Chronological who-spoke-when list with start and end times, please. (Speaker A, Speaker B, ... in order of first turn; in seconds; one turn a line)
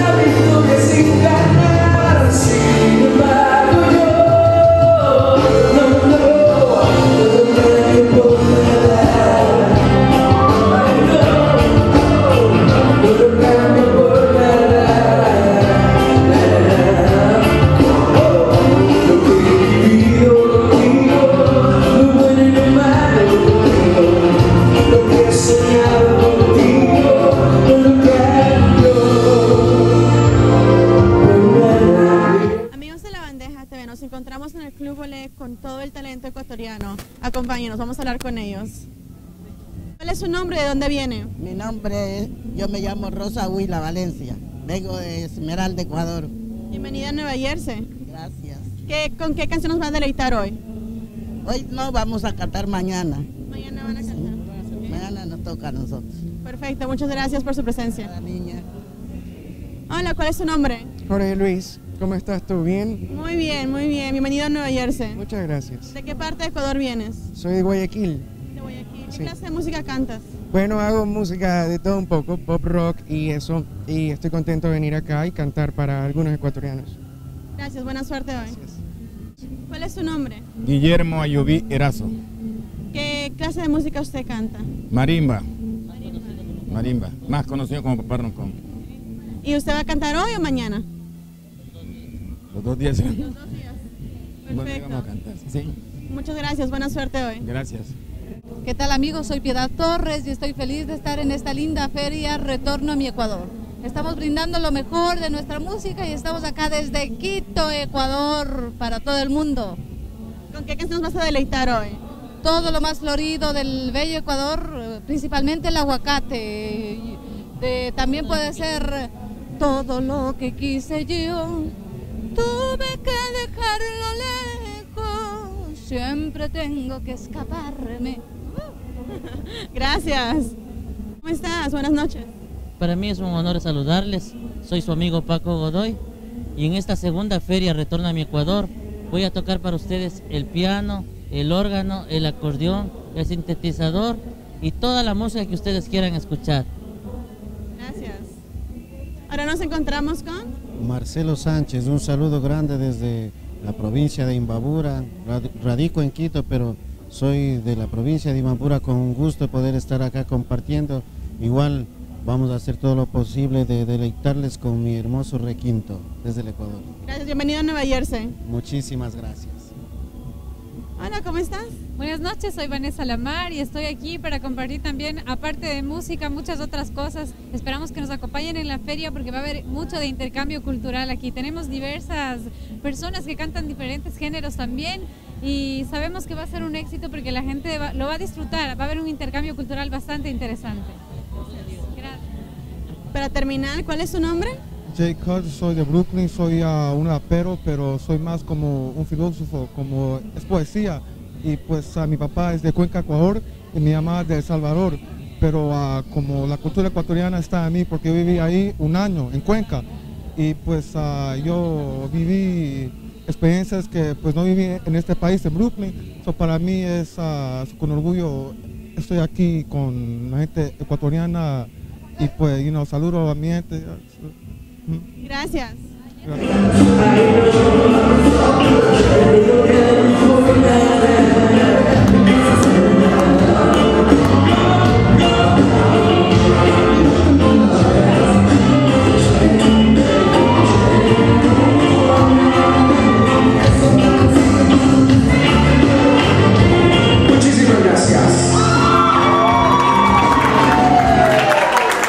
Speaker A: 0.7-2.1
Speaker B: 32.7-38.9
Speaker B: 40.0-41.3
Speaker C: 41.4-46.3
Speaker B: 46.7-47.9
Speaker C: 48.0-48.7
Speaker B: 48.9-50.6
Speaker C: 51.4-53.3
Speaker B: 53.5-55.0
Speaker C: 54.9-56.1
Speaker B: 56.4-58.1
Speaker C: 58.0-58.6
Speaker B: 59.9-60.9
Speaker A: 61.0-63.0
Speaker B: 63.1-65.2
Speaker A: 65.1-65.9
Speaker B: 65.9-67.3
Speaker A: 67.3-68.2
Speaker B: 68.5-70.3
Speaker A: 70.5-77.0
Speaker B: 77.6-78.5
Speaker A: 78.5-78.8
Speaker B: 79.7-80.4
Speaker D: 80.6-82.1
Speaker B: 82.9-84.7
Speaker D: 84.9-85.4
Speaker D: 86.7-88.5
Speaker B: 89.4-90.8
Speaker D: 92.5-93.3
Speaker B: 93.5-93.8
Speaker B: 94.5-95.1
Speaker D: 94.5-95.7
Speaker B: 96.1-97.5
Speaker D: 97.4-97.9
Speaker E: 98.6-109.8
Speaker B: 110.5-112.0
Speaker E: 112.4-121.7
Speaker E: 122.3-128.2
Speaker B: 129.2-130.5
Speaker B: 131.2-132.3
Speaker F: 132.8-136.0
Speaker F: 136.6-146.7
Speaker B: 147.8-148.3
Speaker B: 149.3-150.5
Speaker G: 150.8-166.9
Speaker B: 167.1-168.3
Speaker G: 168.4-169.7
Speaker B: 171.0-171.7
Speaker H: 172.0-190.9
Speaker H: 191.9-192.2
Speaker B: 193.1-194.6
Speaker I: 194.9-209.8
Speaker I: 210.4-224.3
Speaker B: 225.2-225.8
Speaker I: 226.2-226.6
Speaker A: 247.3-248.3